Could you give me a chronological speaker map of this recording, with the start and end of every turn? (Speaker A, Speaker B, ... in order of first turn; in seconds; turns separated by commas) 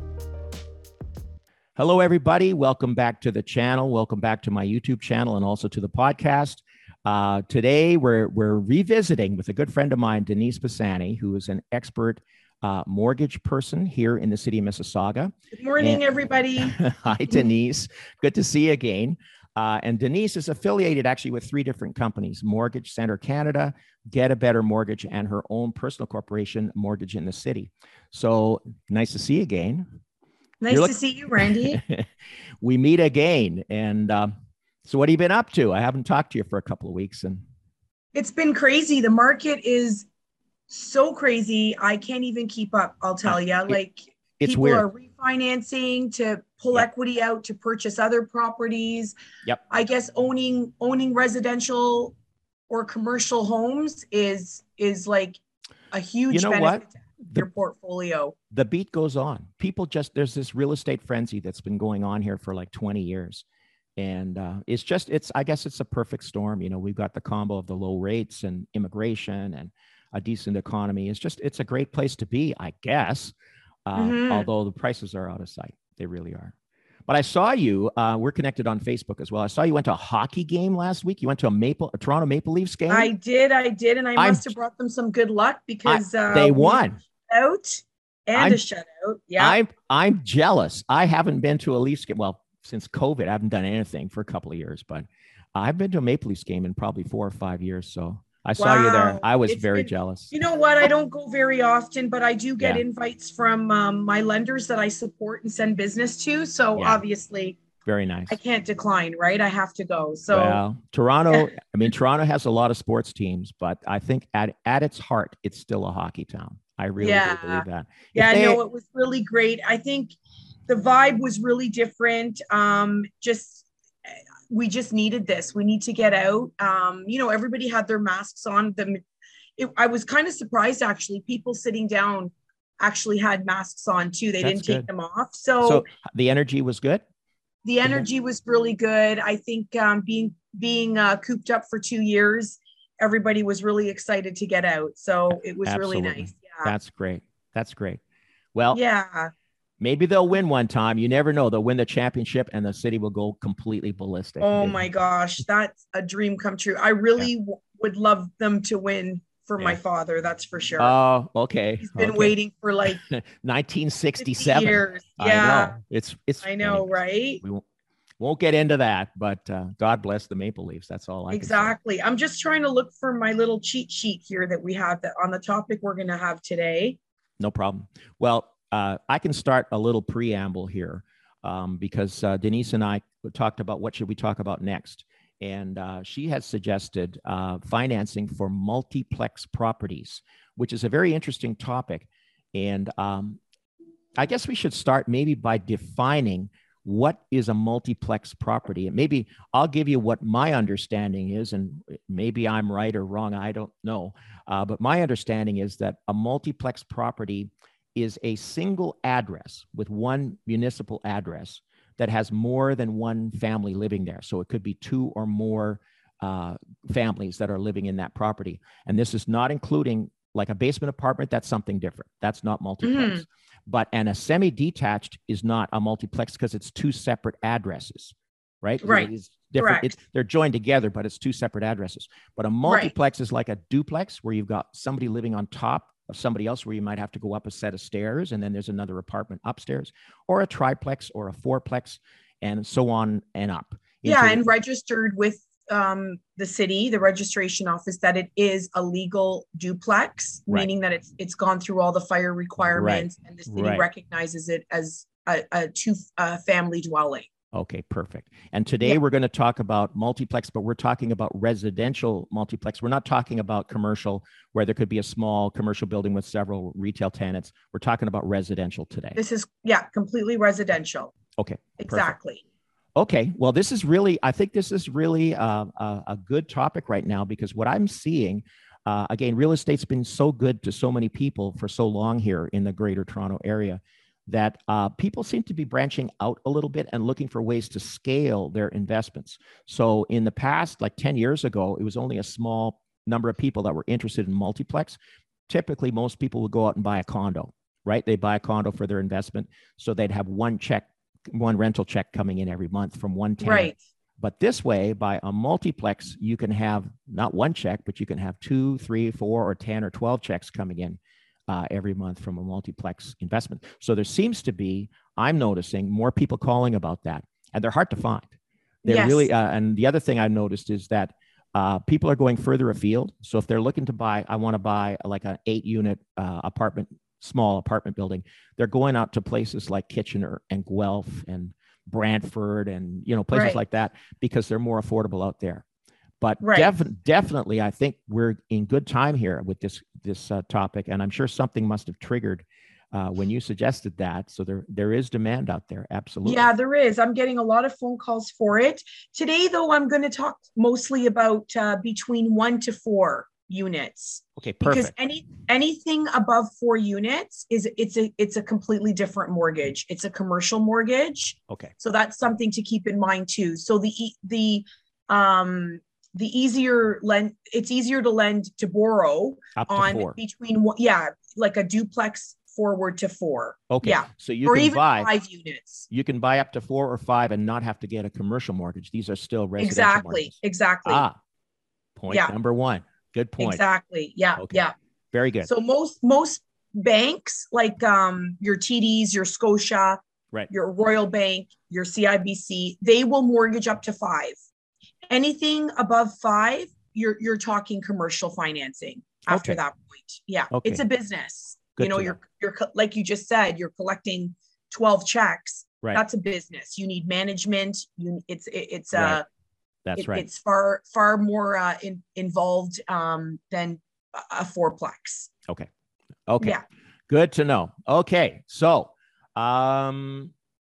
Speaker A: 1.8-16.0, Speaker B: 15.5-16.8, Speaker A: 16.6-29.9, Speaker B: 30.6-31.8, Speaker A: 30.7-32.1, Speaker A: 32.6-34.3, Speaker A: 34.9-37.4, Speaker B: 38.1-40.1, Speaker B: 40.7-49.2, Speaker A: 43.3-43.8, Speaker A: 44.4-44.9, Speaker B: 49.7-52.1, Speaker B: 52.7-55.4, Speaker B: 55.9-58.4, Speaker A: 56.3-57.5, Speaker A: 58.5-63.4, Speaker A: 64.0-73.3, Speaker A: 73.9-76.5, Speaker B: 74.0-74.5, Speaker A: 77.1-83.1, Speaker B: 82.9-89.6, Speaker A: 84.2-84.5, Speaker A: 85.9-87.0, Speaker A: 88.3-88.6, Speaker A: 89.4-100.3, Speaker B: 98.6-107.6, Speaker A: 106.8-107.0, Speaker A: 107.8-108.4, Speaker B: 108.3-110.6, Speaker A: 110.3-118.6, Speaker B: 117.0-120.2, Speaker B: 120.7-129.0, Speaker B: 129.6-135.9, Speaker A: 134.4-134.9, Speaker A: 135.6-137.0, Speaker B: 137.7-146.7, Speaker A: 145.3-148.0, Speaker A: 148.5-148.8, Speaker B: 148.7-149.3, Speaker A: 149.8-154.9, Speaker B: 154.4-160.9, Speaker A: 160.8-162.4, Speaker B: 161.8-163.0, Speaker A: 163.0-167.6, Speaker B: 164.2-165.8, Speaker B: 166.4-167.4, Speaker A: 168.2-171.7, Speaker B: 171.3-177.0, Speaker A: 177.4-193.4, Speaker A: 194.2-244.5, Speaker B: 222.8-223.2, Speaker B: 228.8-229.9, Speaker B: 232.7-232.9, Speaker B: 244.0-257.3, Speaker A: 252.7-253.9, Speaker A: 257.5-269.2, Speaker B: 269.2-271.1, Speaker A: 271.4-272.1, Speaker B: 271.8-272.4, Speaker A: 272.9-318.3, Speaker B: 303.4-303.8, Speaker A: 318.8-335.6, Speaker B: 318.9-319.3, Speaker B: 333.3-333.6, Speaker A: 336.2-346.5, Speaker B: 336.4-336.7, Speaker B: 346.2-375.9, Speaker A: 354.4-354.9, Speaker A: 369.6-370.2, Speaker A: 373.7-375.1, Speaker A: 375.9-381.2, Speaker B: 379.6-381.1, Speaker A: 382.0-383.6, Speaker B: 382.1-382.4, Speaker B: 383.4-384.7, Speaker A: 384.4-384.6, Speaker A: 385.1-385.5, Speaker B: 385.4-390.0, Speaker B: 390.5-394.4, Speaker B: 395.1-409.2, Speaker A: 399.3-399.6, Speaker A: 400.5-400.8, Speaker A: 401.8-402.2, Speaker A: 408.9-409.2, Speaker A: 409.9-410.3, Speaker B: 410.0-415.3, Speaker A: 416.3-416.6, Speaker A: 417.1-420.3